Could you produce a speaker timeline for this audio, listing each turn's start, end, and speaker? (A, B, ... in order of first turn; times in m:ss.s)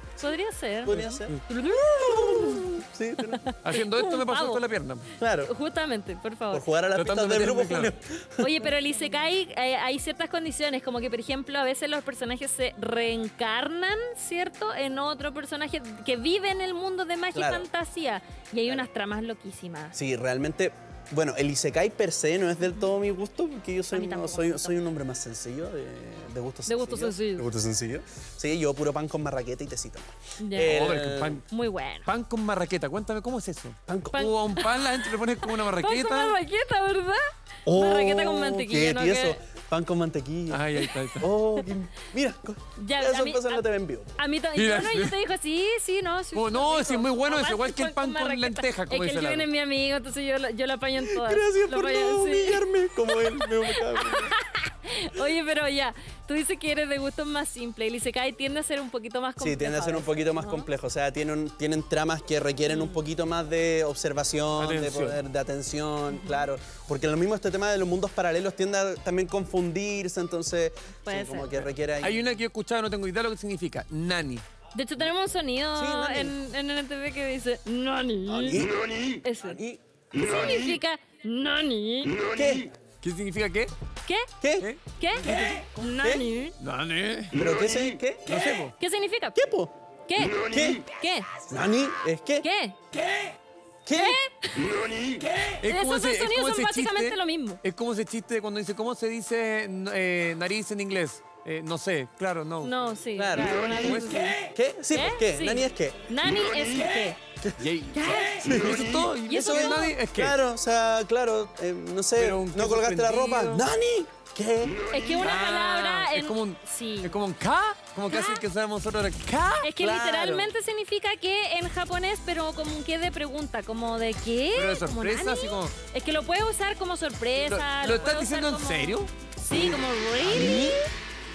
0:00.2-0:02.7 A
0:00.8-0:03.5 B
0:00.9-0:01.4 C
0:03.3-0:04.6 A
0:03.6-0:05.1 C
0:05.2-0:05.5 B
0:05.4-0:06.7 A
0:06.5-0:08.6 B
0:06.9-0:07.9 C
0:08.4-0:20.0 A
0:17.3-0:17.7 B
0:19.9-0:31.4 B
0:23.9-0:24.8 A
0:26.7-0:27.5 A
0:30.4-0:30.8 A
0:30.6-0:31.4 C
0:31.5-0:32.1 A
0:32.0-0:36.4 C
0:33.9-0:34.3 B
0:34.1-0:34.9 A
0:35.4-0:39.4 A
0:37.6-0:40.7 B
0:40.5-0:41.3 C
0:41.2-0:44.2 B
0:42.8-0:43.6 A
0:44.2-1:00.7 A
0:44.6-0:45.2 C
0:46.3-0:49.5 C
0:51.0-0:54.3 B
0:59.4-1:12.2 B
1:02.7-1:03.0 A
1:04.6-1:05.2 C
1:06.1-1:06.4 A
1:11.0-1:11.6 A
1:11.5-1:14.4 C
1:14.7-1:18.7 A
1:15.7-1:16.4 B
1:18.2-1:18.8 B
1:19.2-1:19.6 A
1:19.4-1:19.8 B
1:20.1-1:22.2 A
1:22.3-1:22.7 B
1:23.0-1:23.7 C
1:24.4-1:24.7 B
1:24.6-1:25.7 C
1:24.9-1:26.6 A
1:25.8-1:26.2 B
1:26.6-1:27.4 C
1:27.3-1:28.3 B
1:28.2-1:28.7 C
1:28.8-1:29.4 A
1:29.3-1:29.7 B
1:30.1-1:31.3 A
1:30.5-1:30.8 B
1:31.5-1:32.4 B
1:32.4-1:32.8 A
1:33.8-1:34.2 B
1:33.9-1:34.7 A
1:35.4-1:42.7 C
1:35.6-1:37.6 A
1:42.6-1:44.4 A
1:43.2-1:46.0 B
1:43.7-1:44.3 C
1:44.9-1:47.2 A
1:47.6-1:50.4 C
1:47.9-1:48.5 A
1:48.4-1:54.8 B
1:49.3-1:50.0 A
1:52.2-1:53.6 C
1:54.9-1:57.2 A
1:55.2-1:59.7 C
1:58.1-1:58.4 A
1:59.6-2:10.9 A
1:59.8-2:00.5 B
2:04.5-2:05.7 C
2:07.3-2:09.1 C
2:09.5-2:10.8 B